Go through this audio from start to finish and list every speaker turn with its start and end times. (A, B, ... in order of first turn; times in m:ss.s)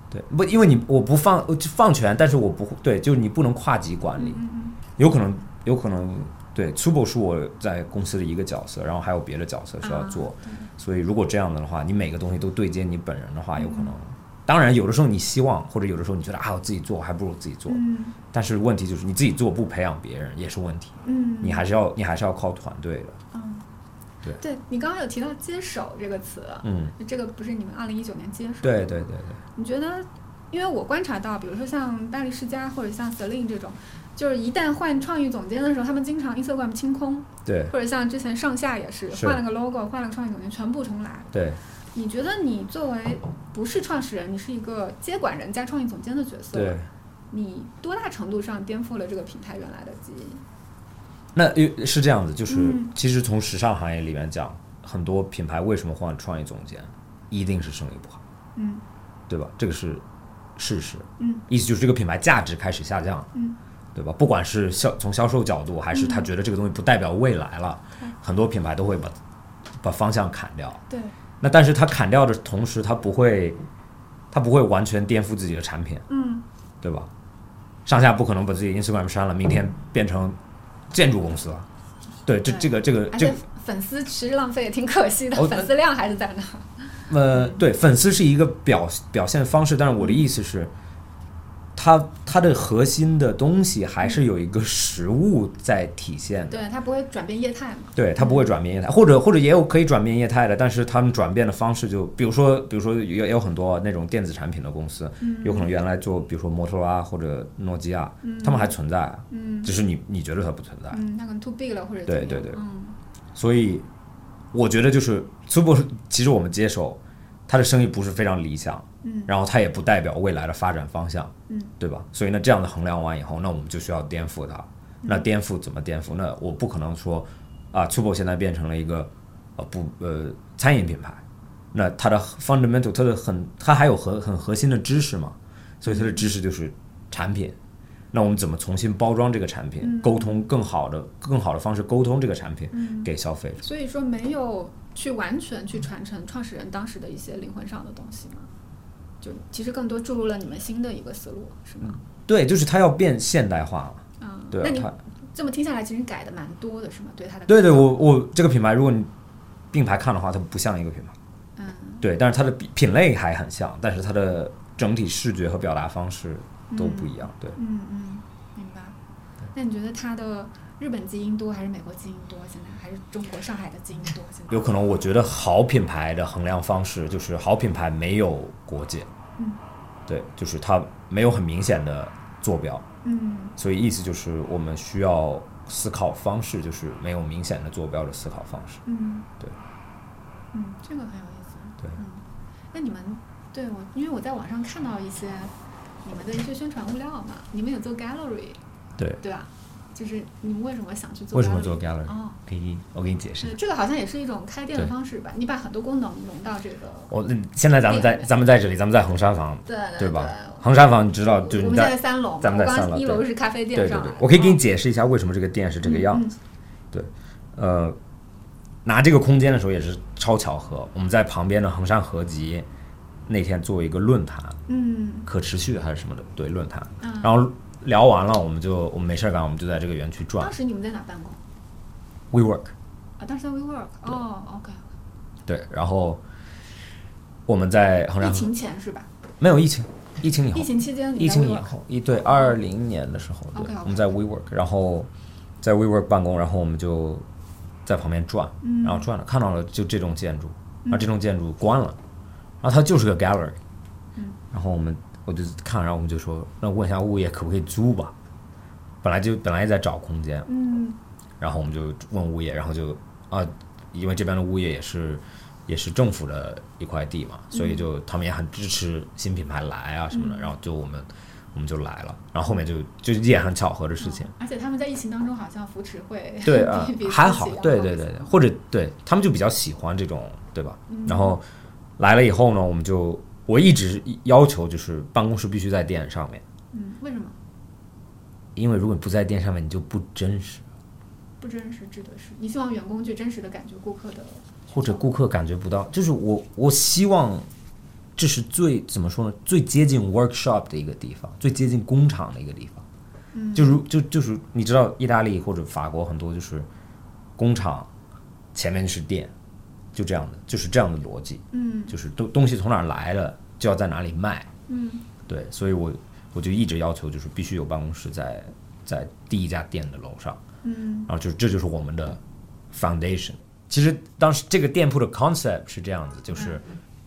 0:00.1-0:04.4 A
0:04.2-0:04.8 B
0:05.0-0:23.2 A
0:09.8-0:10.7 B
0:13.6-0:14.0 B
0:17.7-0:18.2 B
0:21.0-0:21.7 B
0:23.3-0:23.7 B
0:24.4-0:41.3 B
0:26.6-0:26.9 A
0:28.6-0:29.4 A
0:37.4-0:37.7 A
0:39.1-0:39.4 A
0:41.3-0:41.6 A
0:41.9-0:46.8 B
0:46.5-0:46.9 A
0:47.3-0:50.4 B
0:51.4-0:58.2 A
0:52.5-0:52.9 B
0:58.6-0:58.8 B
0:59.3-1:00.0 A
1:00.6-1:03.3 A
1:01.2-1:01.4 B
1:03.3-1:03.6 B
1:04.0-1:09.2 A
1:05.9-1:06.3 B
1:09.8-1:10.8 A
1:10.9-1:11.2 B
1:11.4-1:13.6 A
1:14.3-1:16.1 A
1:16.1-1:16.4 B
1:16.8-1:17.1 A
1:17.9-1:20.4 A
1:20.9-1:21.7 A
1:22.2-1:23.4 A
1:22.5-1:27.1 B
1:25.3-1:25.7 A
1:27.1-1:30.7 A
1:31.8-1:36.6 A
1:36.5-1:38.5 B
1:38.0-1:51.0 A
1:45.2-1:45.7 B
1:48.2-1:48.7 B
1:49.3-1:49.7 B
1:50.9-1:53.0 B
1:52.1-1:52.6 A
1:53.4-1:53.9 A
1:54.5-2:11.2 A
1:59.0-1:59.3 B
2:11.7-2:17.6 A
2:15.9-2:16.3 B
2:18.1-2:23.6 A
2:19.8-2:20.5 B
2:22.7-2:28.5 B
2:29.2-2:32.0 B
2:31.8-2:35.0 A
2:34.2-2:38.0 B
2:37.5-2:39.1 A
2:39.7-2:41.2 A
2:41.6-2:42.1 B
2:42.0-2:47.6 A
2:46.7-2:49.0 B
2:49.5-2:54.7 B
2:54.5-2:59.1 A
3:00.1-3:02.9 A
3:03.0-3:03.6 B
3:03.6-3:08.8 A
3:08.8-3:09.3 B
3:10.5-3:15.5 B
3:16.0-3:18.6 B
3:19.2-3:22.4 B
3:21.3-3:23.6 A
3:23.4-3:27.1 B
3:27.1-3:36.3 A
3:27.9-3:28.3 B
3:29.7-3:30.7 B
3:31.3-3:34.6 B
3:35.8-3:36.4 B
3:36.9-3:38.0 A
3:38.8-3:42.7 A
3:43.3-3:44.6 A
3:44.7-3:45.3 B
3:45.3-3:50.6 A
3:47.0-3:47.5 B
3:50.4-3:51.4 B
3:52.3-3:52.7 A
3:53.2-3:54.9 B
3:55.5-3:56.2 A
3:57.5-3:58.5 A
3:58.2-3:59.1 B
3:59.4-4:05.1 A
4:00.5-4:02.6 B
4:03.5-4:04.2 B
4:05.6-4:07.3 A
4:07.8-4:12.0 A
4:08.6-4:09.1 B
4:12.6-4:13.6 A
4:14.5-4:18.2 A
4:19.0-4:20.5 A
4:20.5-4:21.0 B
4:21.4-4:34.3 A
4:27.5-4:27.9 B
4:30.1-4:30.5 B
4:34.0-4:38.3 B
4:36.4-4:41.4 A
4:40.9-4:41.4 B
4:42.0-4:46.4 A
4:46.7-4:47.4 B
4:48.6-4:50.7 A
4:51.4-4:55.1 B
4:54.7-4:57.5 A
4:58.2-5:02.9 A
5:03.3-5:03.8 B
5:03.6-5:06.7 A
5:07.4-5:07.9 A
5:08.5-5:09.3 A
5:09.9-5:14.5 A
5:11.5-5:12.0 B
5:14.7-5:15.0 B
5:15.3-5:20.4 A
5:20.6-5:21.1 B
5:21.1-5:22.2 A
5:22.7-5:26.6 A
5:26.4-5:26.6 B